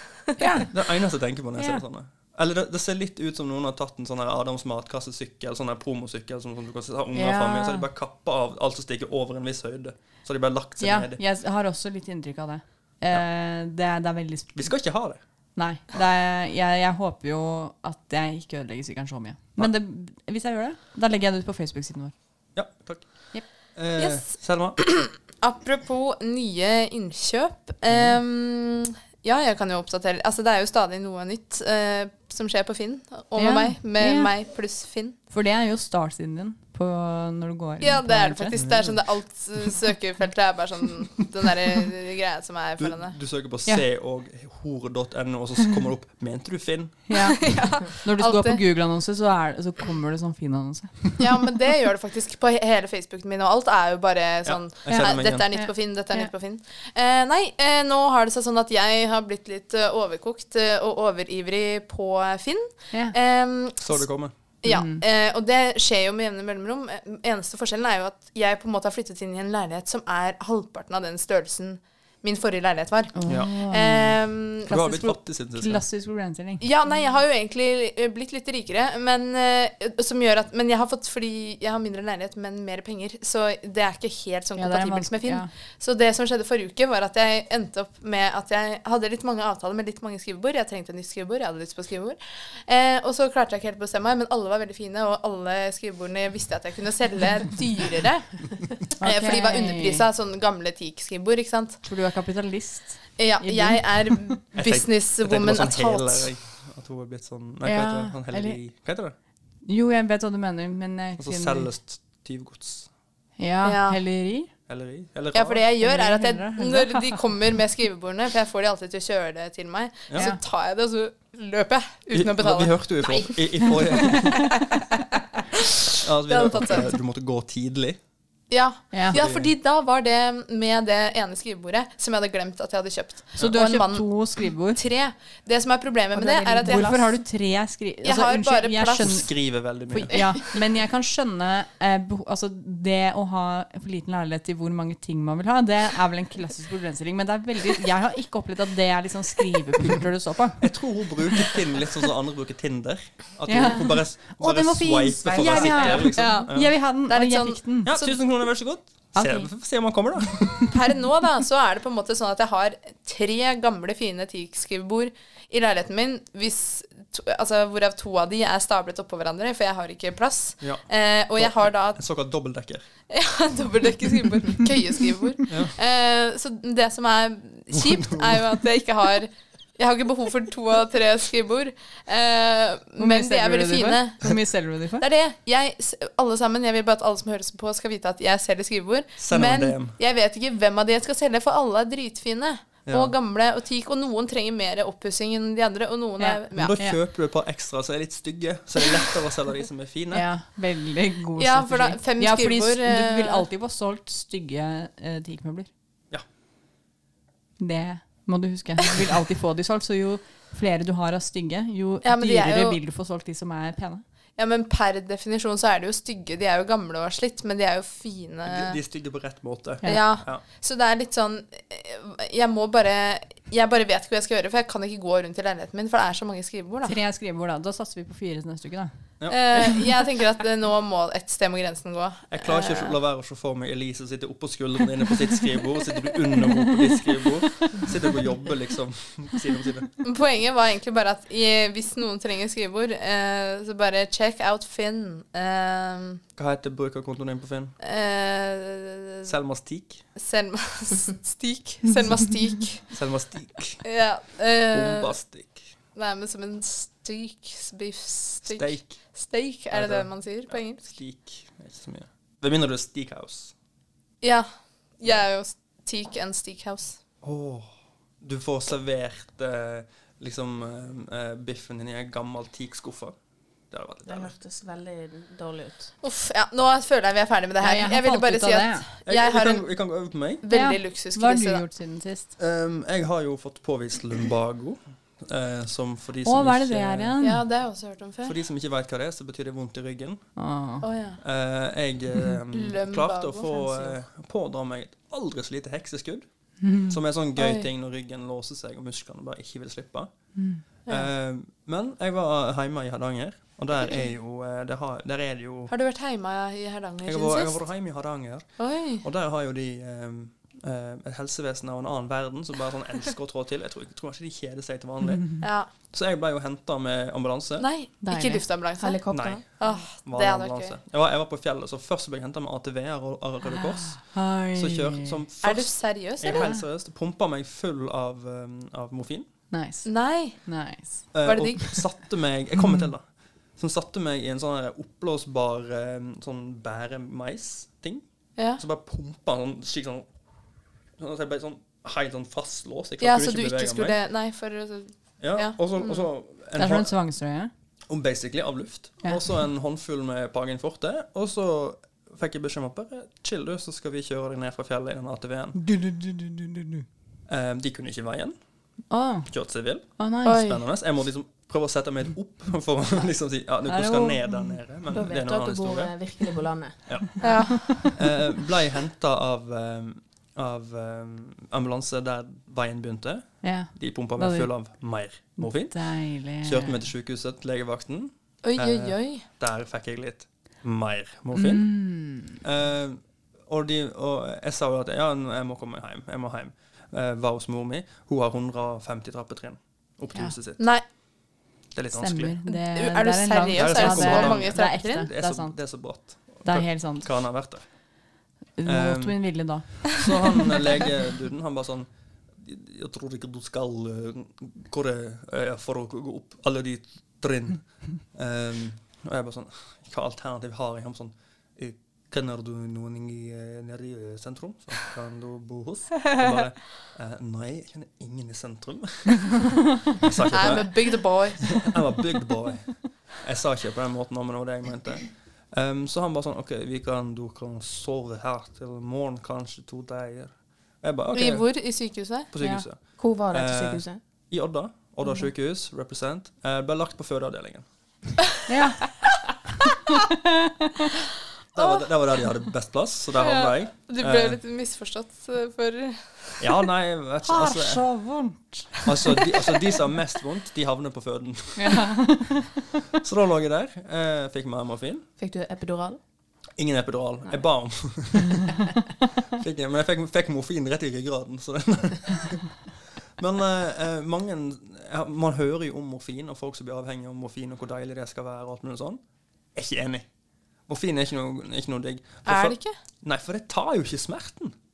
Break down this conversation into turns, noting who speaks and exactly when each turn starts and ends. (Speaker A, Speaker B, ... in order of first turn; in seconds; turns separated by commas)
Speaker A: 0.4-0.7, Speaker B: 0.7-11.2, Speaker A: 1.6-1.8, Speaker A: 7.1-7.9, Speaker A: 10.8-14.8, Speaker B: 14.6-15.2, Speaker A: 15.6-22.1, Speaker B: 22.6-23.1, Speaker B: 23.8-24.8, Speaker C: 24.0-35.1, Speaker B: 27.9-28.2, Speaker A: 33.4-34.3, Speaker A: 35.3-38.6, Speaker C: 37.8-43.2, Speaker B: 38.5-39.0, Speaker B: 42.8-47.1, Speaker A: 47.1-51.2, Speaker C: 47.4-48.6, Speaker C: 51.2-64.1, Speaker B: 54.5-55.5, Speaker A: 54.9-56.3, Speaker B: 63.8-64.3, Speaker C: 64.6-74.7, Speaker A: 64.7-65.0, Speaker A: 73.1-77.0, Speaker B: 74.7-75.8, Speaker C: 76.6-98.3, Speaker A: 84.6-85.5, Speaker A: 99.0-100.0, Speaker C: 99.0-101.8, Speaker A: 101.8-104.4, Speaker C: 103.2-106.3, Speaker B: 104.5-109.2, Speaker A: 107.6-108.6, Speaker A: 109.7-111.7, Speaker B: 111.2-112.9, Speaker A: 113.4-114.5, Speaker C: 113.6-114.0, Speaker B: 114.7-115.6, Speaker C: 115.3-124.5, Speaker A: 115.8-117.2, Speaker B: 122.1-124.6, Speaker B: 126.0-128.0, Speaker C: 126.3-126.9, Speaker C: 128.5-137.1, Speaker A: 128.9-129.2, Speaker B: 129.1-129.5, Speaker A: 133.4-134.8, Speaker D: 136.1-137.2, Speaker A: 136.7-150.7, Speaker C: 138.0-139.2, Speaker B: 139.0-140.3, Speaker B: 150.6-156.8, Speaker A: 153.5-158.6, Speaker C: 155.4-157.8, Speaker B: 157.8-160.7, Speaker A: 159.1-159.5, Speaker C: 160.7-172.0, Speaker B: 171.4-172.9, Speaker C: 173.1-184.3, Speaker B: 175.5-175.7, Speaker B: 177.7-178.5, Speaker A: 183.0-185.1, Speaker C: 185.0-196.8, Speaker B: 189.2-189.9, Speaker B: 192.9-193.1, Speaker A: 196.2-197.0, Speaker B: 196.6-200.3, Speaker A: 200.1-205.7, Speaker C: 201.4-203.5, Speaker A: 207.6-214.0, Speaker C: 212.0-212.8, Speaker C: 214.4-218.8, Speaker B: 218.4-220.4, Speaker A: 219.8-220.1, Speaker C: 219.8-227.0, Speaker A: 226.8-228.9, Speaker C: 229.3-233.0, Speaker B: 232.3-239.9, Speaker C: 240.0-246.2, Speaker B: 246.4-247.7, Speaker C: 247.8-249.3, Speaker B: 249.3-250.0, Speaker C: 250.2-252.9, Speaker B: 252.9-253.8, Speaker C: 253.8-255.1, Speaker B: 254.7-255.7, Speaker C: 255.9-260.8, Speaker B: 258.4-259.0, Speaker B: 259.7-263.5, Speaker C: 264.2-264.5, Speaker C: 265.0-267.0, Speaker B: 267.2-267.7, Speaker B: 268.2-273.1, Speaker B: 273.7-274.3, Speaker D: 274.1-275.9, Speaker C: 276.0-281.6, Speaker A: 277.6-278.9, Speaker B: 279.1-280.4, Speaker A: 280.5-282.3, Speaker B: 282.4-287.2, Speaker A: 286.2-287.4, Speaker C: 287.2-288.4, Speaker B: 288.2-290.2, Speaker A: 290.4-290.9, Speaker C: 290.8-291.2, Speaker B: 291.2-296.2, Speaker C: 292.5-294.0, Speaker A: 296.6-297.0, Speaker B: 296.9-300.1, Speaker C: 297.4-297.7, Speaker A: 300.4-300.6, Speaker C: 300.9-301.1, Speaker B: 300.9-305.7, Speaker C: 305.7-307.6, Speaker B: 307.1-317.7, Speaker C: 308.6-309.0, Speaker A: 315.2-315.4, Speaker C: 315.4-315.7, Speaker C: 317.6-320.8, Speaker A: 318.0-318.5, Speaker D: 318.8-319.4, Speaker B: 319.1-329.3, Speaker A: 323.8-325.2, Speaker C: 325.4-326.5, Speaker A: 326.2-326.6, Speaker A: 329.5-331.1, Speaker C: 329.9-330.4, Speaker B: 331.1-333.1, Speaker C: 331.2-331.8, Speaker A: 332.6-332.9, Speaker B: 333.6-338.0, Speaker B: 338.6-340.1, Speaker B: 341.0-344.0, Speaker C: 343.0-346.1, Speaker B: 345.2-346.9, Speaker A: 346.6-347.5, Speaker B: 347.9-355.6, Speaker A: 355.6-356.9, Speaker B: 357.3-358.4, Speaker A: 358.9-359.3, Speaker B: 359.3-366.0, Speaker A: 360.0-360.4, Speaker C: 360.2-360.6, Speaker A: 363.6-364.6, Speaker D: 364.9-367.2, Speaker B: 366.9-390.6, Speaker C: 367.2-367.9, Speaker A: 367.2-367.9, Speaker A: 373.4-376.9, Speaker C: 378.4-379.3, Speaker A: 381.3-382.4, Speaker C: 390.6-390.8, Speaker B: 391.7-392.4, Speaker A: 391.9-397.1, Speaker C: 392.5-395.1, Speaker B: 393.5-397.7, Speaker A: 398.6-400.4, Speaker B: 398.6-431.5, Speaker C: 420.3-421.5, Speaker C: 431.1-432.3, Speaker B: 432.3-437.6, Speaker A: 432.4-432.7, Speaker D: 433.0-434.0, Speaker A: 438.5-438.9, Speaker A: 439.9-440.5, Speaker B: 441.5-444.4, Speaker C: 441.6-441.9, Speaker C: 443.2-446.4, Speaker B: 446.4-447.9, Speaker A: 447.2-448.8, Speaker B: 448.9-452.2, Speaker A: 451.6-452.8, Speaker B: 453.0-455.1, Speaker D: 455.2-456.0, Speaker B: 456.6-458.7, Speaker B: 459.4-462.6, Speaker B: 463.2-469.0, Speaker B: 469.6-470.1, Speaker B: 470.7-474.5, Speaker C: 472.3-472.8